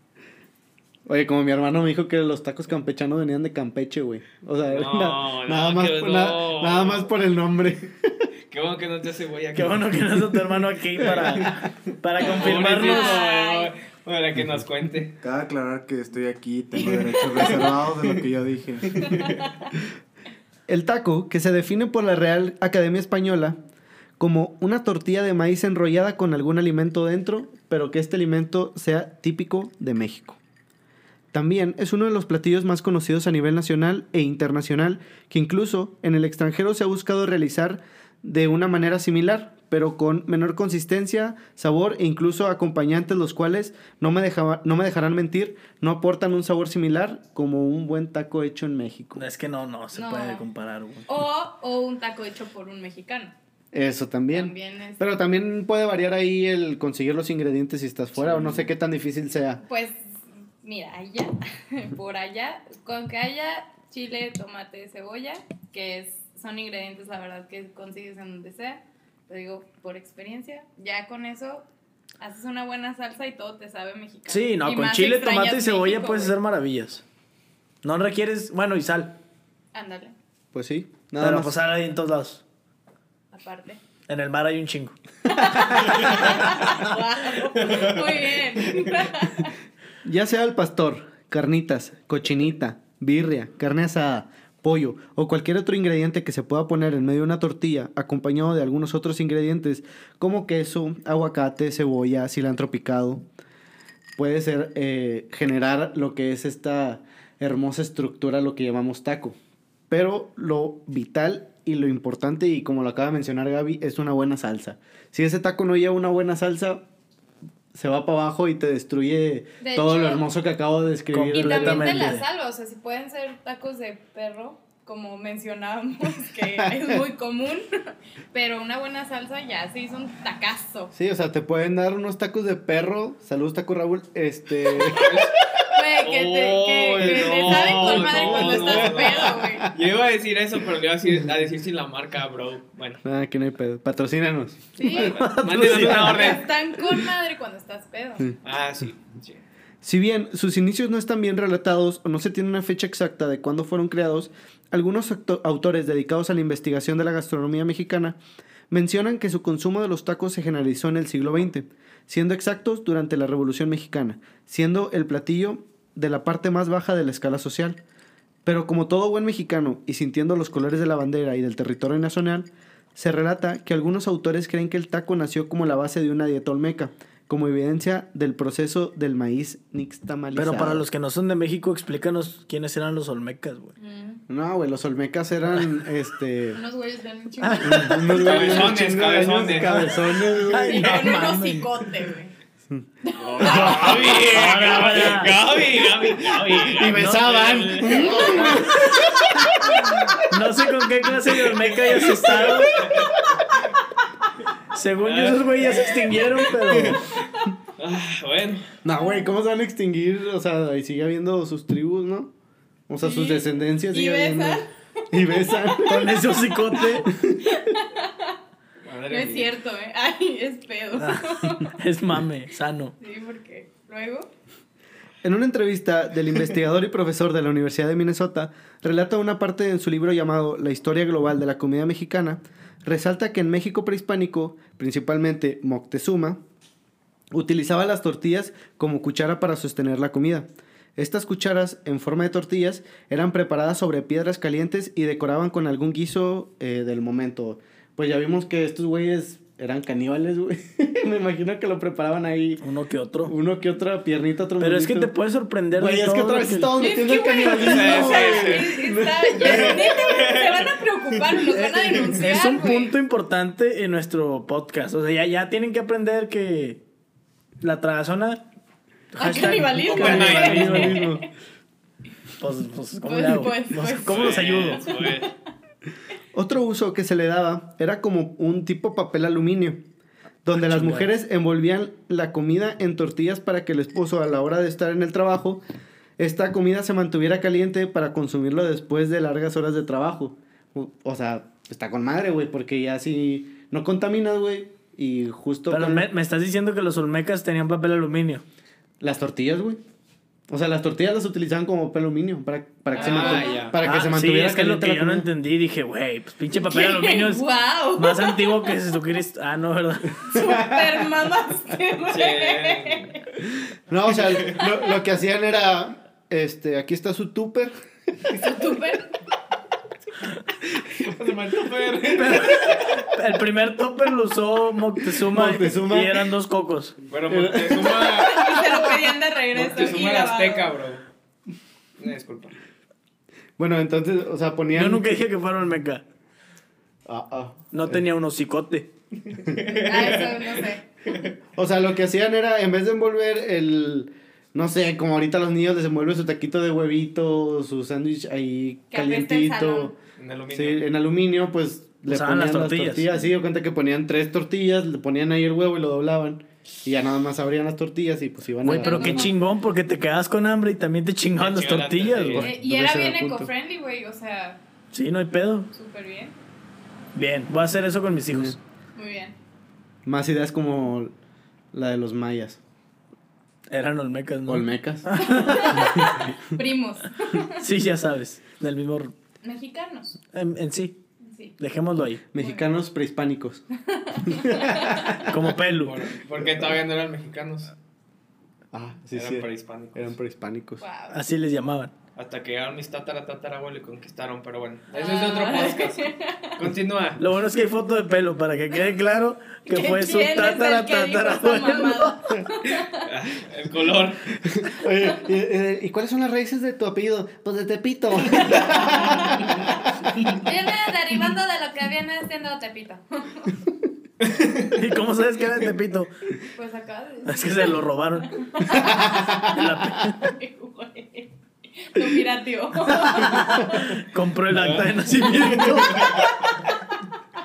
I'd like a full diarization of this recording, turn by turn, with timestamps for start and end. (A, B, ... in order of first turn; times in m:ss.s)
0:01.1-0:08.1 A
0:04.7-0:07.1 B
0:08.5-0:10.4 B
0:09.6-0:13.2 C
0:11.0-0:11.7 B
0:12.2-0:15.2 B
0:12.3-0:13.7 D
0:15.2-0:19.1 E
0:17.2-0:18.1 B
0:19.0-0:19.3 B
0:20.7-0:23.6 A
0:24.2-0:30.4 A
0:31.3-0:49.2 A
0:49.2-0:51.1 C
0:49.9-0:50.5 D
0:51.1-0:53.4 D
0:53.7-0:59.6 A
0:54.3-0:55.1 D
0:59.6-1:11.7 D
1:12.2-1:16.4 D
1:14.3-1:17.0 C
1:17.8-1:19.2 C
1:19.7-1:20.2 D
1:20.5-1:21.6 A
1:21.2-1:22.4 C
1:23.3-1:23.8 D
1:24.1-1:25.0 C
1:25.3-1:29.5 D
1:27.6-1:28.9 B
1:30.0-1:43.2 A
1:44.2-1:49.4 A
1:49.9-1:56.8 A
1:57.7-2:02.2 A
1:59.6-2:00.2 D
2:01.1-2:02.2 C
2:01.3-2:10.9 D
2:06.6-2:07.0 A
2:10.9-2:15.2 A
2:14.8-2:15.1 D
2:14.9-2:15.4 B
2:15.7-2:19.7 D
2:16.0-2:23.0 B
2:17.0-2:19.7 A
2:23.0-2:26.4 A
2:24.8-2:25.1 D
2:24.9-2:26.5 B
2:25.2-2:26.2 C
2:26.0-2:28.3 D
2:28.4-2:29.4 B
2:29.8-2:38.2 A
2:38.7-2:47.8 A
2:48.4-3:00.9 A
3:00.3-3:03.7 C
3:03.8-3:04.2 D
3:04.3-3:06.6 A
3:06.5-3:08.6 D
3:07.4-3:08.2 C
3:07.6-3:11.1 A
3:08.2-3:10.2 B
3:09.5-3:11.8 C
3:10.6-3:12.3 D
3:13.0-3:13.9 D
3:13.2-3:18.6 B
3:13.4-3:15.4 C
3:13.5-3:14.9 A
3:16.2-3:20.1 A
3:16.8-3:19.0 C
3:20.3-3:22.8 C
3:21.2-3:23.4 B
3:24.7-3:27.1 C
3:25.0-3:27.2 B
3:27.8-3:28.7 B
3:28.8-3:32.3 A
3:32.9-3:36.3 A
3:33.0-3:34.7 D
3:35.3-3:35.9 D
3:35.9-3:37.1 C
3:36.8-3:38.4 D
3:37.0-3:37.4 A
3:38.9-3:39.5 B
3:39.1-3:41.8 D
3:41.0-3:43.0 C
3:43.0-3:44.3 D
3:45.2-3:56.4 A
3:57.3-4:12.6 A
4:12.6-4:13.3 C
4:13.2-4:15.1 A
4:14.6-4:16.7 C
4:15.7-4:19.9 A
4:16.8-4:22.9 D
4:17.6-4:18.7 B
4:19.4-4:20.7 B
4:21.5-4:22.4 A
4:22.1-4:26.8 C
4:27.6-4:28.5 C
4:29.2-4:31.0 C
4:29.2-4:31.3 D
4:29.9-4:30.9 B
4:30.0-4:31.3 A
4:32.4-4:34.8 C
4:33.0-4:35.3 D
4:34.1-4:35.3 B
4:36.3-4:39.8 A
4:40.4-4:45.6 A
4:40.6-4:41.1 C
4:46.2-4:56.1 A
4:55.7-4:58.4 C
4:59.0-4:59.8 A
5:00.5-5:05.3 A
5:02.9-5:03.7 D
5:03.0-5:03.8 B
5:03.8-5:10.6 C
5:06.5-5:08.7 D
5:10.2-5:13.2 D
5:12.1-5:13.1 B
5:13.9-5:17.7 A
5:18.3-5:19.1 D
5:20.8-5:22.8 B
5:22.1-5:27.0 C
5:25.2-5:26.2 A
5:27.1-5:28.6 B
5:27.3-5:28.4 A
5:28.1-5:30.7 D
5:29.5-5:31.0 B
5:32.0-5:32.6 B
5:33.6-5:35.1 A
5:34.7-5:36.0 C
5:37.1-5:38.0 A
5:37.7-5:38.9 C
5:39.3-5:41.3 B
5:39.7-5:40.8 D
5:41.6-5:49.9 A
5:48.9-5:50.0 D
5:50.2-5:50.8 B
5:50.5-5:59.3 A
5:52.1-5:53.1 C
5:58.6-6:02.6 C
5:58.6-5:59.4 D
6:01.4-6:02.5 B
6:02.3-6:03.5 A
6:02.4-6:04.6 D
6:04.9-6:05.7 C
6:05.7-6:06.4 D
6:07.1-6:08.6 C
6:08.3-6:08.6 A
6:09.0-6:09.4 D
6:10.0-6:11.1 A
6:11.7-6:12.6 A
6:13.7-6:16.1 C
6:14.5-6:16.0 A
6:15.2-6:17.6 D
6:17.6-6:19.1 C
6:19.4-6:20.2 D
6:20.3-6:21.0 C
6:21.2-6:21.6 D
6:21.6-6:22.2 C
6:22.3-6:23.6 A
6:22.4-6:22.6 D
6:23.9-6:25.2 D
6:24.2-6:25.4 A
6:25.3-6:26.0 C
6:25.7-6:27.7 B
6:28.7-6:30.8 A
6:29.1-6:30.2 B
6:30.8-6:31.2 D
6:31.1-6:31.9 C
6:32.2-6:37.2 B
6:34.9-6:36.5 D
6:37.2-6:42.2 C
6:39.7-6:43.1 D
6:43.0-6:44.3 B
6:44.5-6:49.6 A
6:48.3-6:49.5 D
6:50.4-6:53.6 D
6:54.2-6:54.7 B
6:54.7-6:56.1 C
6:56.5-6:57.8 D
6:57.3-7:00.2 C
6:58.4-7:03.9 D
7:03.0-7:06.2 C
7:04.5-7:06.3 B
7:05.9-7:07.0 D